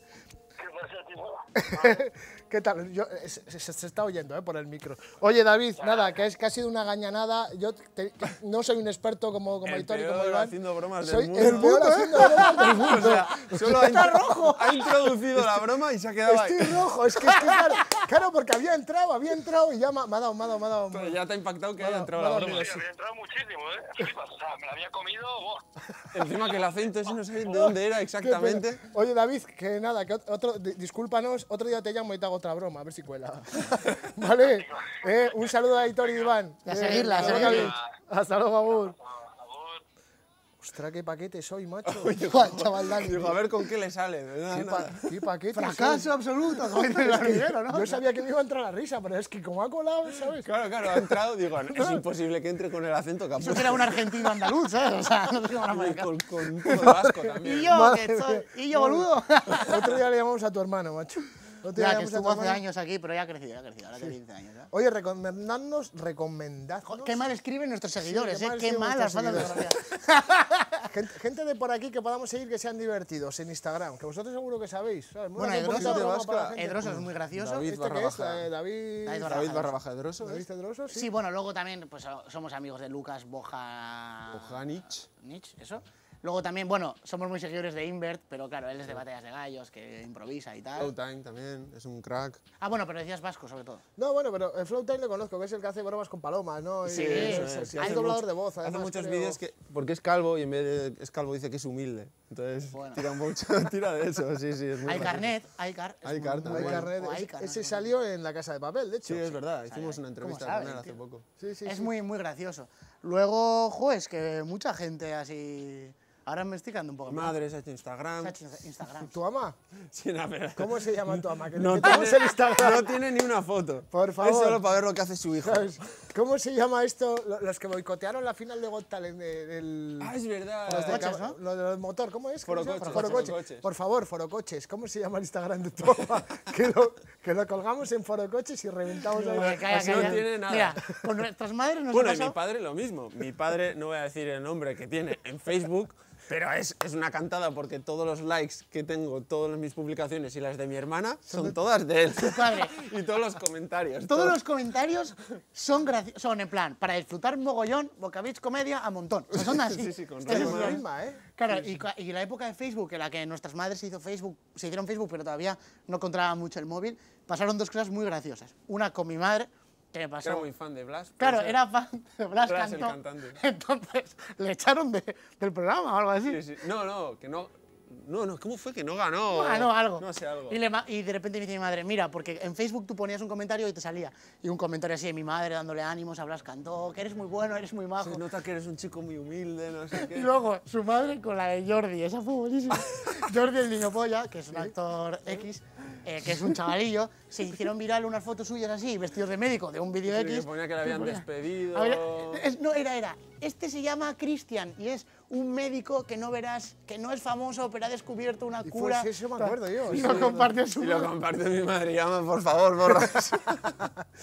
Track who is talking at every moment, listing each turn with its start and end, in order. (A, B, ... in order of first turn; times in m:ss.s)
0:00.6-0:02.0 A
0:01.6-0:14.4 B
0:05.8-0:06.1 A
0:09.6-0:16.8 C
0:11.8-0:13.1 D
0:13.6-0:14.9 D
0:16.2-0:21.2 B
0:17.3-0:17.7 D
0:20.9-0:22.8 C
0:21.8-0:22.8 B
0:22.4-0:25.6 A
0:26.1-0:28.8 C
0:27.5-0:27.7 A
0:28.2-0:39.0 B
0:36.6-0:37.7 D
0:37.2-0:37.7 C
0:39.1-0:39.8 A
0:40.6-0:42.5 B
0:41.8-0:45.2 C
0:42.3-0:43.4 D
0:44.5-0:51.1 B
0:45.5-0:48.0 D
0:50.4-0:54.3 C
0:51.7-0:52.0 B
0:53.4-0:56.2 D
0:55.7-0:57.8 C
0:56.7-1:02.6 B
0:57.4-0:59.8 D
1:01.7-1:04.7 D
1:04.7-1:07.2 B
1:06.8-1:10.8 D
1:08.0-1:09.7 B
1:10.9-1:19.5 B
1:15.4-1:17.7 D
1:15.7-1:16.5 C
1:17.4-1:18.5 C
1:19.0-1:19.8 D
1:19.3-1:20.4 C
1:20.2-1:21.1 B
1:20.9-1:24.6 D
1:24.3-1:25.1 C
1:25.2-1:30.9 D
1:30.8-1:32.4 C
1:32.6-1:33.8 D
1:34.0-1:39.4 B
1:36.8-1:38.0 D
1:36.9-1:45.3 C
1:42.7-1:43.0 D
1:44.8-1:47.9 D
1:46.0-1:46.9 C
1:46.4-1:49.4 B
1:49.0-1:51.2 C
1:49.7-1:51.0 D
1:51.4-1:51.9 B
1:51.6-1:57.4 D
1:57.1-1:58.4 C
1:58.2-1:59.1 D
1:59.0-1:59.6 B
1:59.9-2:06.0 C
2:00.6-2:03.0 B
2:03.9-2:04.6 B
2:05.4-2:10.1 B
2:10.0-2:11.1 C
2:10.6-2:20.2 B
2:10.7-2:11.4 D
2:12.4-2:13.6 C
2:12.8-2:13.3 D
2:19.2-2:20.8 C
2:19.4-2:22.4 D
2:21.9-2:34.4 C
2:31.3-2:31.6 B
2:32.2-2:32.8 D
2:34.0-2:40.8 D
2:39.3-2:40.8 C
2:40.2-2:41.2 B
2:41.4-2:50.5 D
2:50.2-2:51.6 C
2:51.2-2:56.4 D
2:52.5-2:53.4 C
2:56.2-3:00.6 C
2:59.3-3:08.2 D
3:08.0-3:10.3 C
3:09.9-3:31.1 D
3:20.0-3:22.4 C
3:28.6-3:30.5 B
3:29.9-3:33.9 C